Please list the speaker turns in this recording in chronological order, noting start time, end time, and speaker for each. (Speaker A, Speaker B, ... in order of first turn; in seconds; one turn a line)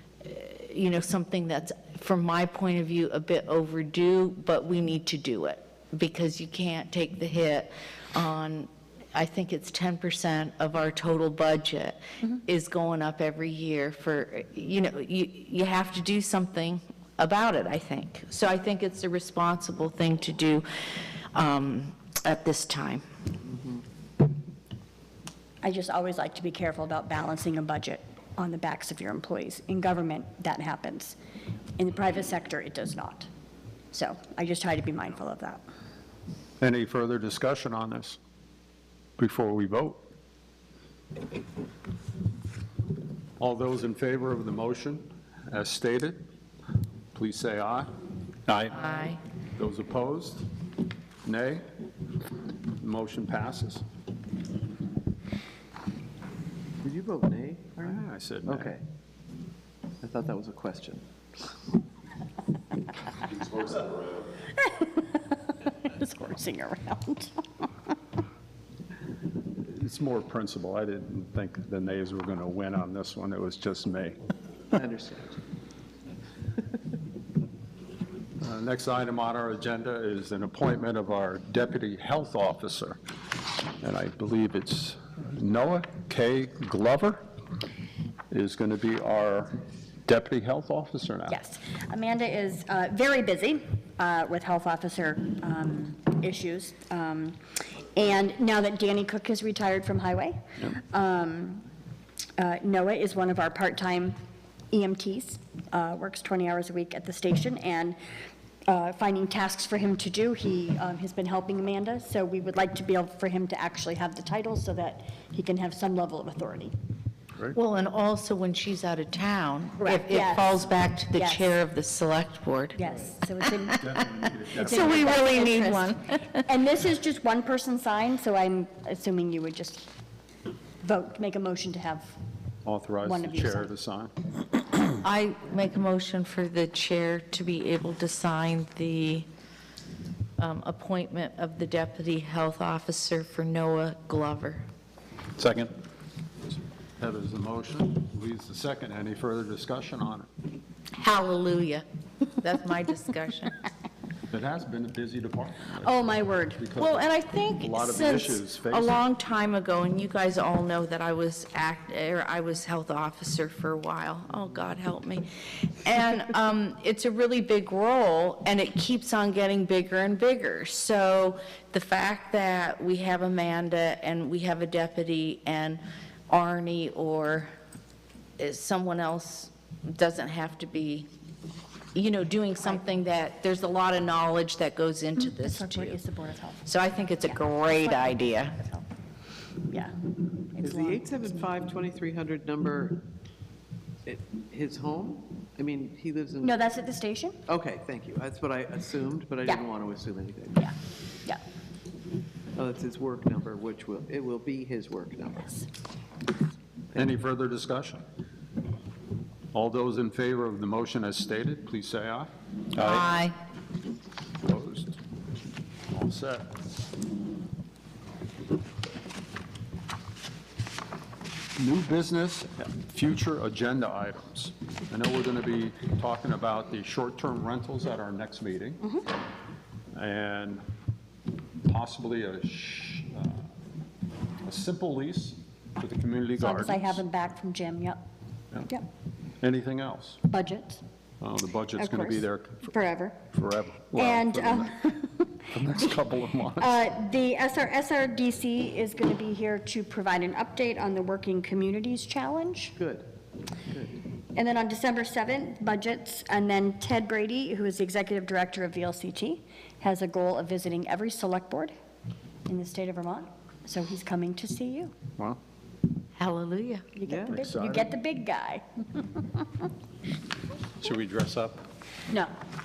Speaker A: 0.2-20.7
Speaker A: 21.3-23.0
Speaker B: 25.6-31.2
Speaker B: 31.8-33.3
Speaker B: 33.9-35.6
Speaker C: 36.6-38.2
Speaker C: 39.2-40.0
Speaker C: 43.4-46.2
Speaker C: 47.1-47.9
Speaker C: 48.5-50.5
Speaker A: 48.8-49.2
Speaker C: 51.2-51.7
Speaker C: 52.7-53.8
Speaker D: 56.8-58.8
Speaker C: 57.8-58.7
Speaker D: 60.0-61.0
Speaker B: 64.6-67.9
Speaker C: 69.5-74.2
Speaker D: 74.7-75.4
Speaker C: 78.4-83.0
Speaker C: 83.8-87.2
Speaker C: 88.3-89.5
Speaker C: 90.0-91.3
Speaker B: 91.3-97.4
Speaker B: 97.9-101.6
Speaker B: 102.4-104.2
Speaker B: 104.7-108.0
Speaker B: 108.7-116.7
Speaker A: 117.5-122.8
Speaker B: 119.8-121.5
Speaker B: 122.8-129.9
Speaker C: 123.8-125.1
Speaker A: 124.5-126.4
Speaker B: 130.8-132.2
Speaker C: 132.6-134.1
Speaker B: 133.0-133.7
Speaker A: 134.9-139.3
Speaker A: 140.4-144.6
Speaker C: 145.4-145.7
Speaker C: 147.0-150.3
Speaker A: 150.9-151.8
Speaker A: 152.4-153.6
Speaker C: 154.3-159.0
Speaker B: 155.8-156.6
Speaker A: 156.8-165.3
Speaker A: 165.8-177.5
Speaker A: 178.4-181.1
Speaker A: 181.9-186.0
Speaker B: 185.2-186.6
Speaker A: 186.6-188.6
Speaker B: 187.3-188.9
Speaker B: 189.7-189.9
Speaker B: 190.5-191.1
Speaker D: 190.6-193.0
Speaker D: 194.0-196.6
Speaker B: 196.4-197.4
Speaker D: 197.5-200.7
Speaker B: 200.6-201.4
Speaker D: 202.6-205.6
Speaker C: 206.9-208.0
Speaker C: 209.5-213.1
Speaker A: 212.7-213.3
Speaker C: 214.4-215.0
Speaker C: 215.9-216.5
Speaker C: 221.6-228.8
Speaker C: 229.9-230.6
Speaker C: 231.6-233.5
Speaker C: 234.4-237.0
Speaker B: 236.4-238.0
Speaker C: 239.4-240.2
Speaker B: 240.3-240.8
Speaker C: 241.2-242.7
Speaker B: 241.8-243.2
Speaker C: 243.3-244.8
Speaker B: 243.9-245.9
Speaker C: 245.5-246.8
Speaker B: 246.6-252.7
Speaker D: 252.8-253.1
Speaker D: 253.7-254.0
Speaker B: 254.3-261.7
Speaker B: 262.4-264.9
Speaker A: 266.1-266.8
Speaker B: 266.9-269.7
Speaker D: 267.0-267.4
Speaker C: 267.3-267.9
Speaker C: 270.8-271.6